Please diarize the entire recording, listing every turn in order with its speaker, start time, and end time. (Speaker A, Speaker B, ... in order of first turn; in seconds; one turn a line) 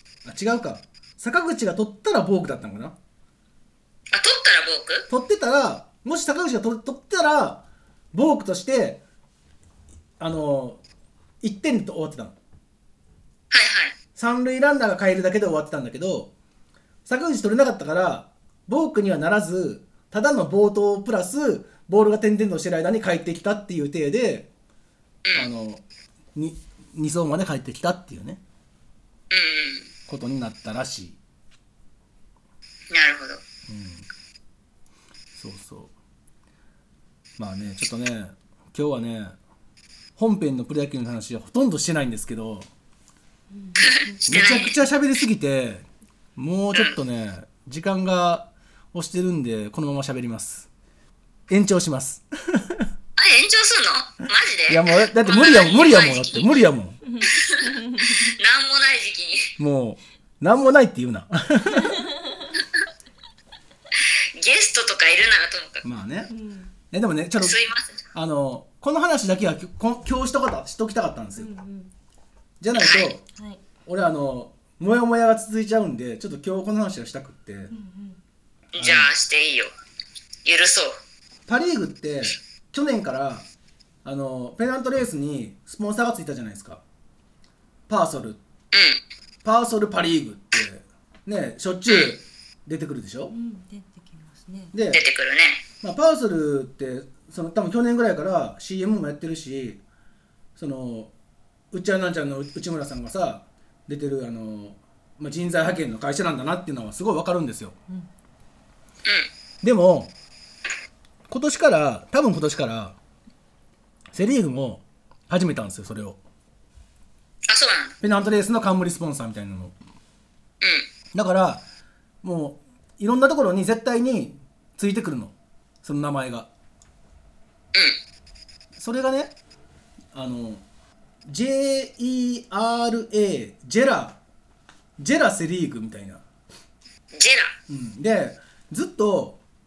Speaker A: 0.2-3.0
Speaker B: 4.1-5.1
Speaker A: 5.1-7.6
Speaker A: 8.1-9.0
Speaker A: 10.2-10.8
Speaker A: 11.4-12.3
Speaker B: 13.5-13.9
Speaker A: 14.2-16.3
Speaker A: 17.1-24.5
Speaker A: 25.4-25.8
Speaker A: 26.4-28.4
Speaker B: 29.3-29.9
Speaker A: 30.1-31.2
Speaker B: 32.9-33.4
Speaker A: 33.7-34.0
Speaker A: 35.4-35.9
Speaker A: 37.4-39.4
Speaker A: 40.2-42.7
Speaker C: 43.5-44.2
Speaker B: 43.8-44.8
Speaker A: 44.3-50.7
Speaker A: 51.5-52.9
Speaker B: 53.2-56.6
Speaker A: 54.7-57.0
Speaker C: 57.0-58.3
Speaker B: 57.2-59.5
Speaker A: 59.6-62.1
Speaker C: 61.7-62.5
Speaker B: 64.3-65.8
Speaker A: 65.8-66.3
Speaker C: 66.3-66.7
Speaker A: 66.9-67.6
Speaker B: 67.4-68.0
Speaker A: 68.1-71.5
Speaker C: 71.4-71.9
Speaker A: 72.6-73.2
Speaker B: 72.8-73.1
Speaker C: 73.3-73.6
Speaker A: 73.9-77.7
Speaker C: 77.7-78.2
Speaker B: 78.7-79.7
Speaker A: 78.8-79.1
Speaker B: 80.5-81.0
Speaker A: 81.5-83.5
Speaker A: 84.0-86.8
Speaker A: 87.9-88.4
Speaker B: 88.7-89.0
Speaker A: 89.4-93.3
Speaker B: 91.9-92.2
Speaker C: 93.3-94.7
Speaker A: 94.7-95.0
Speaker B: 94.9-95.6
Speaker A: 95.8-99.8
Speaker A: 100.6-101.1
Speaker A: 101.7-107.8
Speaker B: 109.0-109.3
Speaker A: 109.6-110.1
Speaker A: 111.3-113.0
Speaker A: 114.1-116.2
Speaker B: 117.5-118.0
Speaker A: 118.0-119.8
Speaker B: 120.6-120.9
Speaker A: 121.1-121.6
Speaker A: 122.2-126.5
Speaker A: 128.8-129.3
Speaker A: 130.1-130.6
Speaker A: 131.3-134.2
Speaker A: 135.0-136.2
Speaker B: 137.1-137.6
Speaker A: 137.7-139.4